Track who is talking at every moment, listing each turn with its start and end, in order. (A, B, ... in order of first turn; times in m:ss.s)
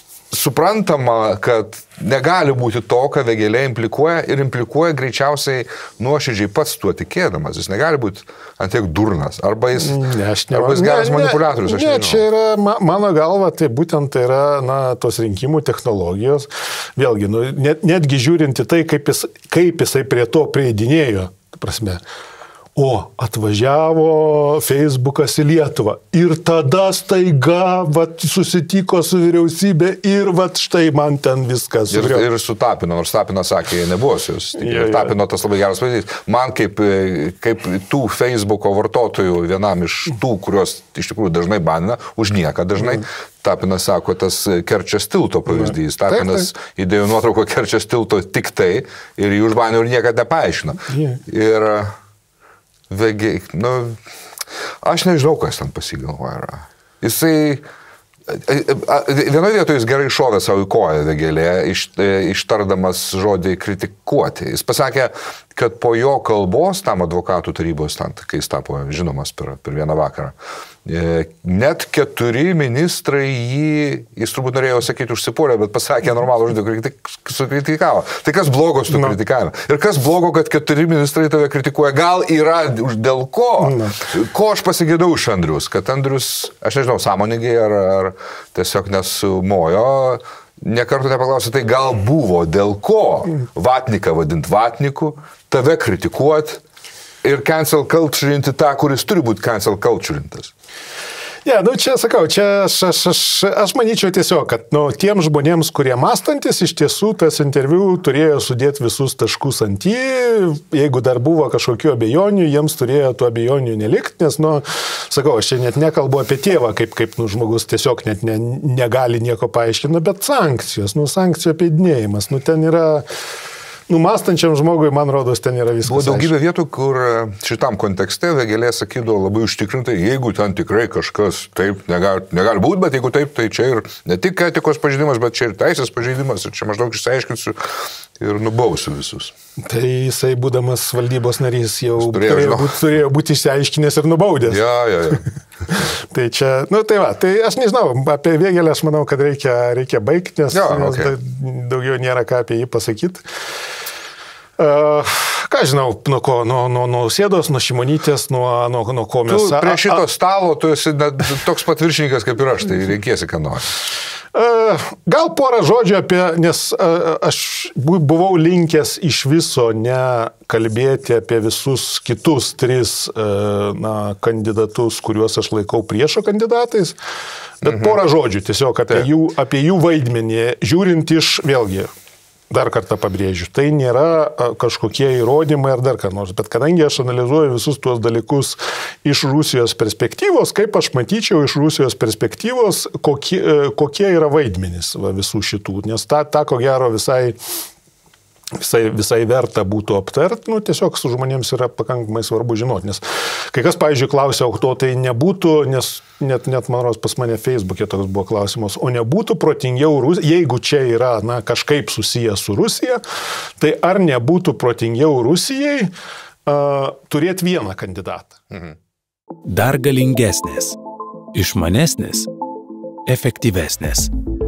0:00.3-0:12.2 A
0:09.7-0:22.0 B
0:22.8-0:32.2 B
0:31.9-0:51.9 A
0:34.6-0:35.1 B
0:45.6-0:46.5 B
0:50.9-0:51.2 B
0:52.9-0:54.0 A
0:54.8-0:57.6 A
0:58.3-1:36.6 A
1:23.6-1:24.0 B
1:37.2-1:40.5 A
1:41.4-2:03.0 B
2:03.9-2:06.3 B
2:05.8-2:19.3 A
2:19.6-2:33.2 B
2:22.0-2:22.8 A
2:24.5-2:25.2 A
2:30.5-2:31.1 A
2:34.6-2:40.0 B
2:39.3-2:43.7 A
2:44.3-2:57.0 B
2:57.6-3:01.9 B
2:57.6-2:57.9 A
3:02.5-3:17.4 B
3:18.6-3:33.0 B
3:33.6-3:35.9 B
3:36.4-3:38.5 B
3:39.4-3:40.8 C
3:41.3-3:42.3 C
3:43.0-3:44.1 C